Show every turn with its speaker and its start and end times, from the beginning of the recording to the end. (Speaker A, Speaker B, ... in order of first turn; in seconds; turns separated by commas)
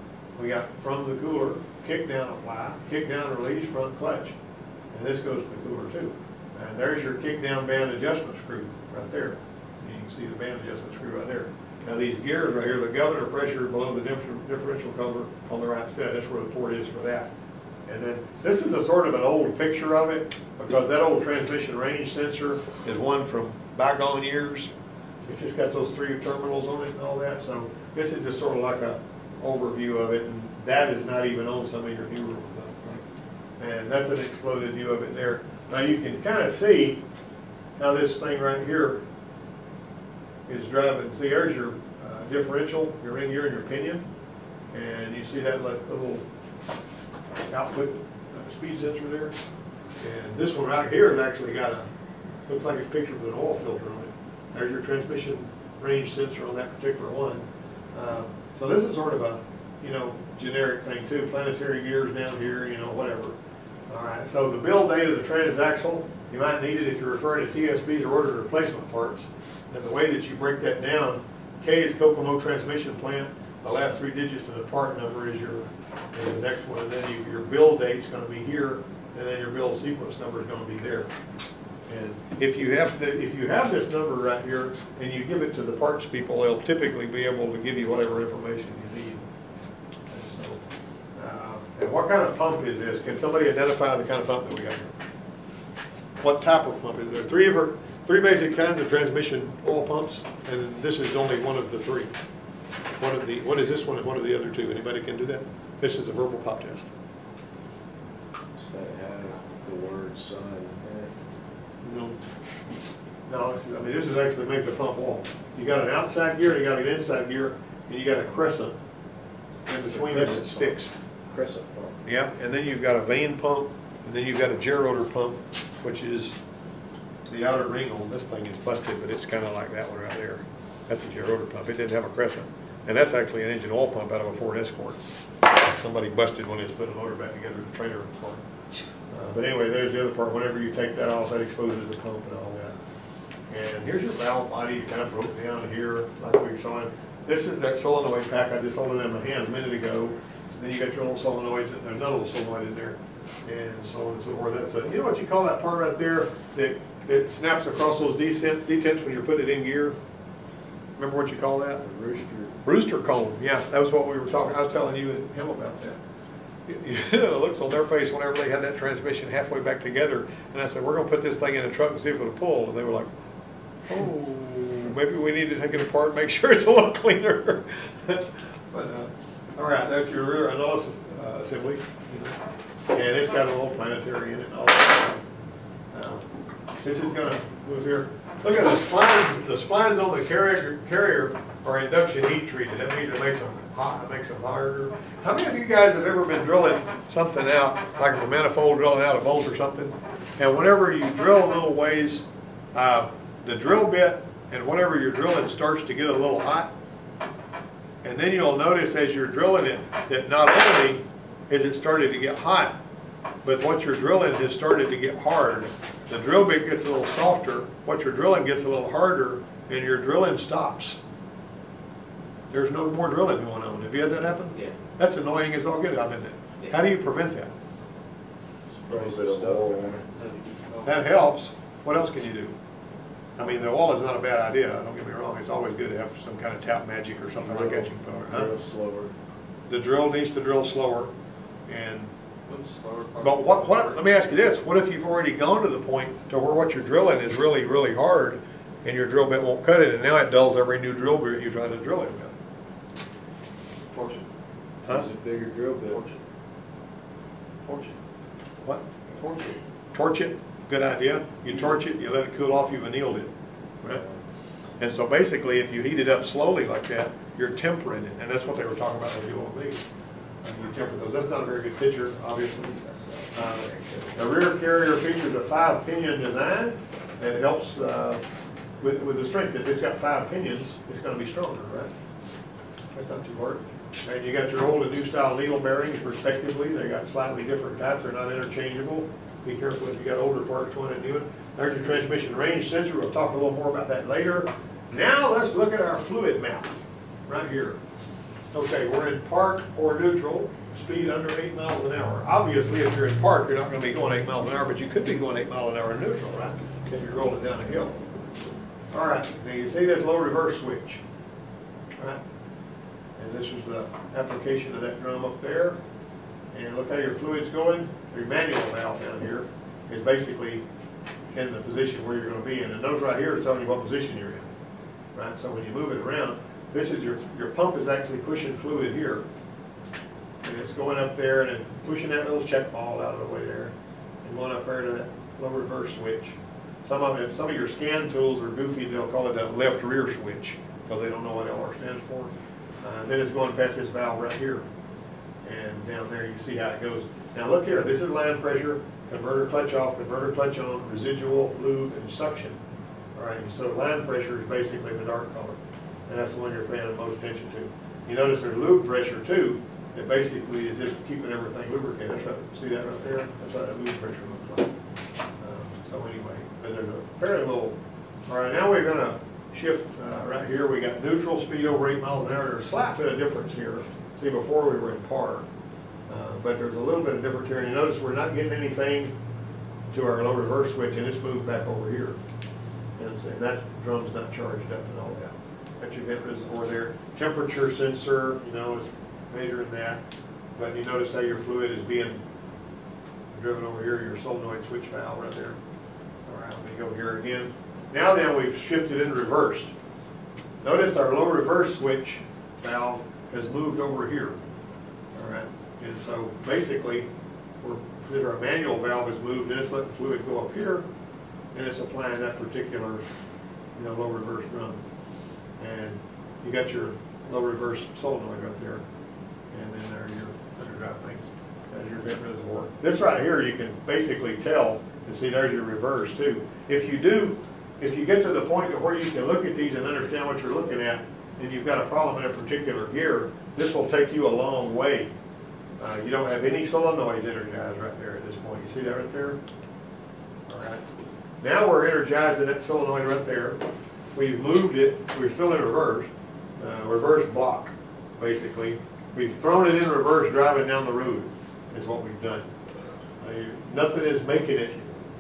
Speaker A: 0.3-4.3, Speaker A: 4.9-17.3, Speaker A: 17.9-24.7, Speaker A: 25.2-33.0, Speaker A: 33.6-37.0, Speaker A: 37.8-39.0, Speaker A: 40.5-44.0, Speaker A: 44.7-46.2, Speaker A: 47.5-49.3, Speaker A: 50.0-51.9, Speaker A: 52.5-63.4, Speaker A: 63.9-81.1, Speaker A: 81.9-89.2, Speaker A: 90.1-90.6, Speaker A: 91.2-94.9, Speaker A: 96.2-102.1, Speaker A: 103.0-106.9, Speaker B: 108.6-111.1, Speaker A: 111.8-112.2, Speaker A: 113.3-118.8, Speaker A: 119.7-120.9, Speaker B: 119.8-122.0, Speaker A: 122.0-126.3, Speaker A: 127.3-138.4, Speaker A: 139.1-142.7, Speaker A: 143.5-159.9, Speaker A: 161.0-161.8, Speaker B: 161.8-162.5, Speaker A: 162.6-166.0, Speaker A: 166.7-173.1, Speaker A: 173.9-182.3, Speaker A: 182.9-185.2, Speaker A: 185.9-186.2, Speaker A: 186.8-206.7, Speaker A: 208.0-212.8, Speaker A: 213.4-221.0, Speaker A: 222.5-227.5, Speaker C: 228.8-231.0, Speaker B: 228.8-230.0, Speaker A: 230.8-232.5, Speaker A: 233.3-238.5, Speaker B: 237.4-239.1, Speaker A: 239.7-241.1, Speaker A: 241.7-242.1, Speaker C: 242.4-244.0, Speaker A: 243.2-252.3, Speaker C: 253.9-254.2, Speaker B: 254.8-256.1, Speaker C: 255.9-256.2, Speaker C: 257.6-257.9, Speaker A: 258.6-263.3, Speaker A: 264.8-269.9, Speaker A: 270.4-278.2, Speaker C: 272.9-274.1, Speaker A: 278.8-281.9, Speaker A: 282.9-297.8, Speaker A: 298.5-308.0, Speaker A: 308.9-311.0, Speaker A: 313.2-315.8, Speaker A: 316.5-320.6, Speaker A: 321.3-324.5, Speaker A: 325.1-329.2, Speaker A: 330.4-342.3, Speaker A: 342.8-344.6, Speaker A: 345.4-352.6, Speaker A: 353.1-364.7, Speaker A: 365.4-367.8, Speaker A: 368.3-375.4, Speaker A: 376.1-379.1, Speaker A: 379.9-382.2, Speaker A: 383.0-390.0, Speaker A: 390.6-392.2, Speaker A: 393.3-395.6, Speaker A: 396.2-399.7, Speaker A: 400.6-404.4, Speaker A: 405.1-407.1, Speaker A: 407.6-410.8, Speaker A: 411.5-413.0, Speaker A: 413.8-414.8, Speaker A: 415.6-418.8, Speaker A: 419.5-435.1, Speaker A: 435.8-439.4, Speaker A: 440.5-440.8, Speaker A: 441.4-443.6, Speaker A: 444.1-452.5, Speaker A: 453.2-454.8